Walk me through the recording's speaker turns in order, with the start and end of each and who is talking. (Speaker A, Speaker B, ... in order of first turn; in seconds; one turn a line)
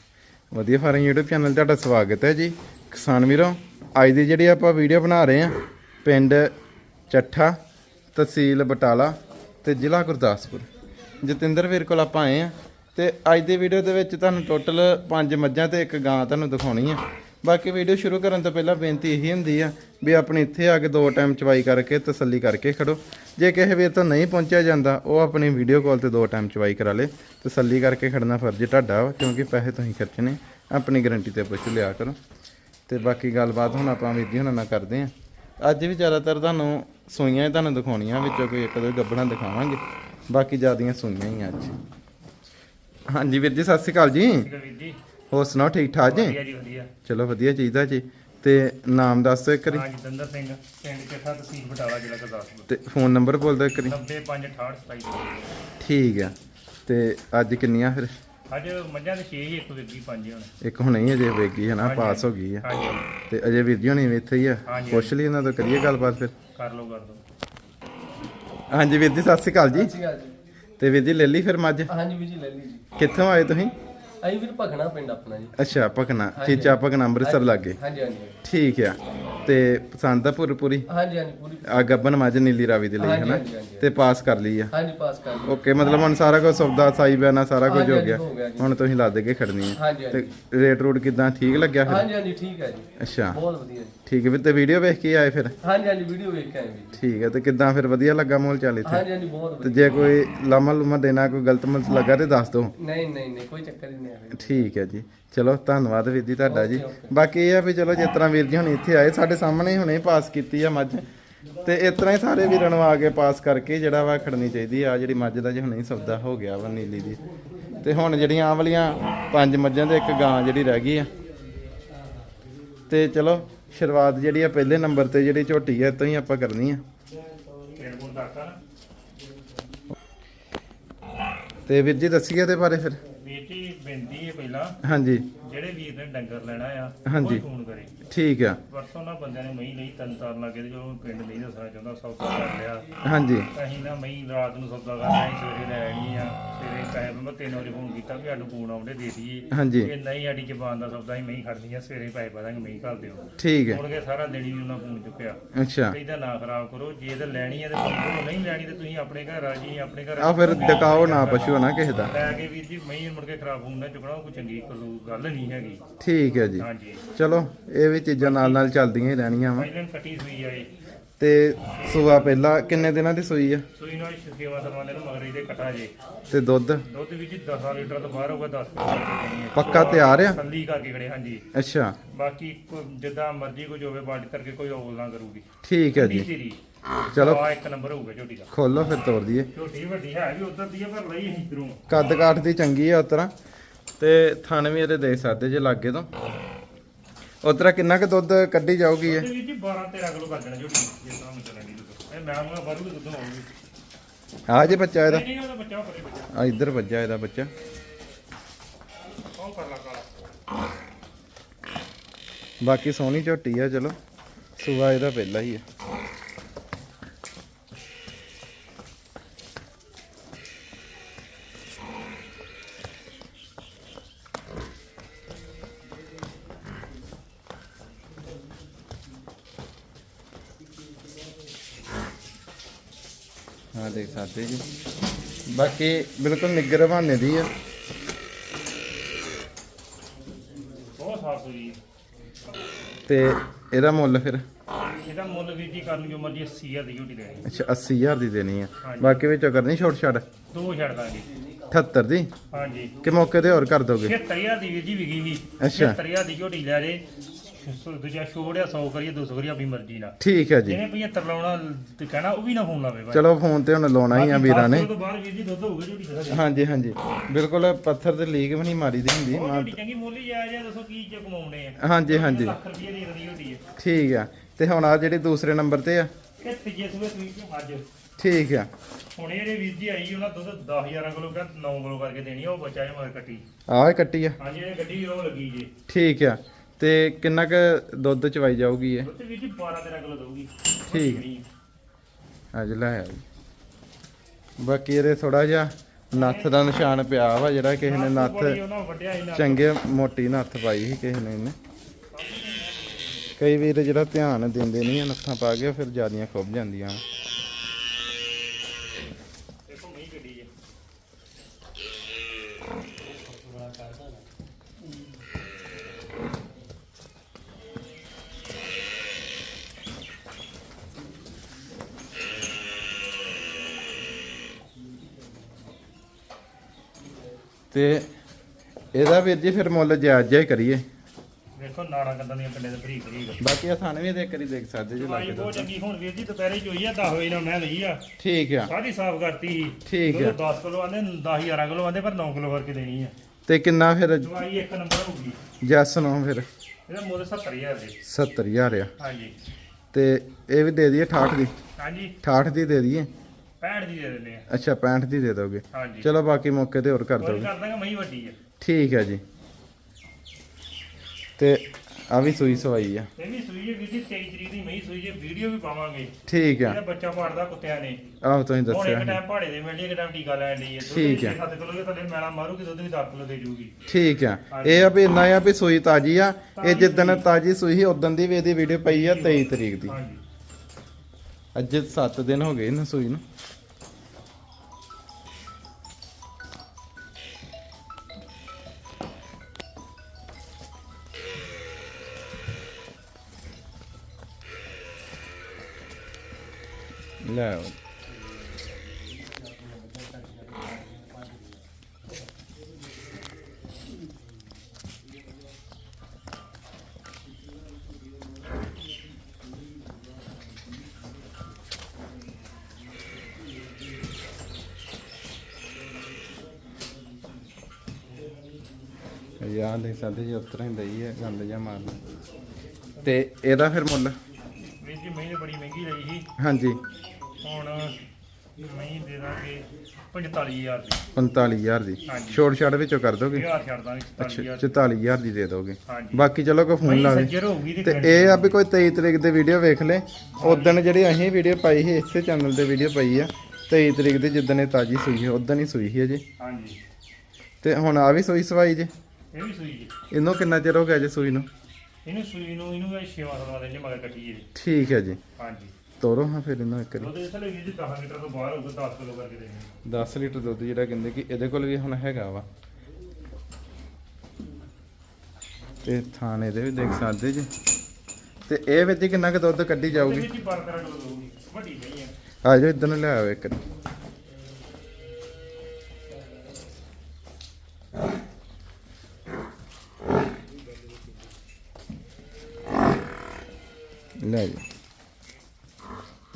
Speaker A: 0.5-6.5
Speaker A: 7.1-7.6
Speaker A: 8.2-10.7
Speaker A: 11.2-32.2
Speaker A: 32.9-41.8
Speaker A: 43.1-44.5
Speaker B: 44.4-45.0
Speaker A: 45.3-46.4
Speaker B: 46.0-46.9
Speaker A: 47.0-49.9
Speaker B: 49.7-52.7
Speaker A: 52.7-54.0
Speaker B: 53.8-55.6
Speaker A: 55.8-56.3
Speaker A: 56.9-58.1
Speaker B: 58.5-60.5
Speaker A: 60.6-62.6
Speaker B: 61.8-63.1
Speaker A: 63.2-66.3
Speaker B: 64.7-65.1
Speaker B: 66.5-67.2
Speaker A: 68.7-69.9
Speaker C: 69.7-70.3
Speaker A: 70.8-71.9
Speaker C: 71.9-72.9
Speaker A: 73.0-73.8
Speaker C: 74.2-75.5
Speaker A: 75.6-77.8
Speaker C: 76.3-78.4
Speaker A: 78.4-80.9
Speaker C: 80.9-81.9
Speaker A: 81.7-84.7
Speaker C: 83.0-83.8
Speaker C: 84.8-85.6
Speaker A: 85.5-92.1
Speaker C: 87.7-88.8
Speaker C: 89.8-90.3
Speaker C: 91.8-94.0
Speaker A: 93.0-93.4
Speaker A: 94.1-95.6
Speaker C: 95.6-97.0
Speaker A: 96.9-99.1
Speaker C: 98.8-99.9
Speaker A: 99.6-102.8
Speaker C: 102.8-104.5
Speaker A: 104.3-111.0
Speaker C: 106.5-107.2
Speaker A: 111.6-117.2
Speaker A: 117.7-121.1
Speaker A: 122.9-126.8
Speaker B: 127.7-128.6
Speaker A: 131.7-133.0
Speaker B: 133.2-134.8
Speaker A: 134.8-135.3
Speaker B: 135.4-137.9
Speaker A: 137.1-137.4
Speaker A: 138.1-138.6
Speaker B: 138.7-142.9
Speaker A: 143.0-143.5
Speaker B: 143.5-161.6
Speaker A: 149.5-149.9
Speaker A: 153.4-153.8
Speaker A: 155.5-156.0
Speaker A: 160.2-162.1
Speaker B: 162.1-165.8
Speaker A: 166.0-169.7
Speaker B: 166.6-167.0
Speaker B: 168.2-168.7
Speaker B: 169.5-170.7
Speaker A: 171.2-173.7
Speaker B: 173.8-175.9
Speaker A: 176.3-176.8
Speaker B: 176.9-181.5
Speaker A: 179.5-180.4
Speaker A: 181.5-182.0
Speaker B: 182.1-186.6
Speaker A: 185.6-186.3
Speaker A: 187.1-187.5
Speaker B: 187.1-188.5
Speaker A: 188.5-189.5
Speaker B: 189.5-191.8
Speaker A: 191.9-193.3
Speaker A: 194.0-196.1
Speaker A: 197.4-199.3
Speaker B: 199.0-203.5
Speaker A: 204.5-205.3
Speaker B: 204.6-206.4
Speaker A: 206.3-207.5
Speaker B: 209.2-210.1
Speaker A: 212.6-214.0
Speaker A: 214.6-215.6
Speaker A: 233.7-234.7
Speaker A: 235.5-237.5
Speaker B: 240.9-241.8
Speaker A: 243.1-244.4
Speaker B: 245.0-247.5
Speaker A: 247.4-250.2
Speaker B: 248.8-249.2
Speaker B: 250.5-251.3
Speaker A: 251.7-252.3
Speaker B: 252.5-253.0
Speaker A: 253.0-254.2
Speaker B: 254.0-257.0
Speaker A: 255.6-256.0
Speaker B: 257.6-263.2
Speaker A: 260.2-260.8
Speaker A: 263.1-264.9
Speaker B: 264.1-266.4
Speaker A: 266.3-269.8
Speaker B: 269.3-273.6
Speaker A: 271.8-272.6
Speaker A: 273.8-276.1
Speaker B: 276.4-277.9
Speaker A: 278.2-278.7
Speaker B: 279.1-283.4
Speaker A: 283.7-284.4
Speaker B: 284.4-285.7
Speaker A: 285.9-289.1
Speaker B: 289.0-291.4
Speaker A: 290.9-291.2
Speaker A: 292.5-293.2
Speaker A: 294.6-298.6
Speaker B: 296.1-296.9
Speaker B: 297.8-299.6
Speaker A: 299.3-301.6
Speaker B: 302.1-303.3
Speaker A: 303.4-307.0
Speaker B: 309.7-310.5
Speaker A: 327.7-328.1
Speaker A: 328.9-330.9
Speaker B: 331.6-333.4
Speaker A: 333.4-335.7
Speaker B: 335.0-338.0
Speaker A: 338.2-338.7
Speaker B: 338.6-343.1
Speaker A: 339.9-340.4
Speaker A: 343.5-344.3
Speaker B: 344.2-345.4
Speaker A: 345.6-346.5
Speaker B: 346.9-348.0
Speaker A: 348.0-348.9
Speaker B: 349.0-349.3
Speaker A: 349.9-351.5
Speaker B: 351.8-352.2
Speaker A: 352.2-353.1
Speaker B: 353.6-354.5
Speaker A: 354.5-357.5
Speaker B: 355.7-356.1
Speaker B: 357.2-358.4
Speaker A: 358.6-359.2
Speaker A: 361.4-363.1
Speaker B: 363.2-368.0
Speaker A: 366.3-366.8
Speaker A: 368.2-369.2
Speaker B: 368.7-373.8
Speaker A: 370.8-371.4
Speaker A: 373.9-380.0
Speaker B: 374.5-374.9
Speaker B: 376.6-377.2
Speaker B: 378.9-380.2
Speaker A: 381.6-383.2
Speaker A: 397.2-397.8
Speaker C: 399.9-401.5
Speaker A: 419.4-422.0
Speaker A: 423.0-424.2
Speaker B: 424.8-426.3
Speaker A: 426.4-426.8
Speaker B: 427.4-428.0
Speaker B: 428.6-431.0
Speaker A: 431.1-433.5
Speaker B: 432.1-432.4
Speaker B: 433.3-434.8
Speaker A: 434.2-446.2
Speaker B: 435.9-436.3
Speaker B: 436.8-438.6
Speaker B: 440.4-440.8
Speaker B: 446.4-446.8
Speaker A: 447.6-448.9
Speaker B: 449.3-449.9
Speaker A: 450.1-451.5
Speaker B: 452.1-454.5
Speaker A: 454.6-455.2
Speaker B: 455.4-455.7
Speaker A: 456.0-457.1
Speaker B: 456.9-459.8
Speaker A: 459.9-462.5
Speaker A: 465.8-467.5
Speaker A: 468.5-470.3
Speaker B: 469.9-472.1
Speaker A: 472.4-473.6
Speaker A: 484.2-484.6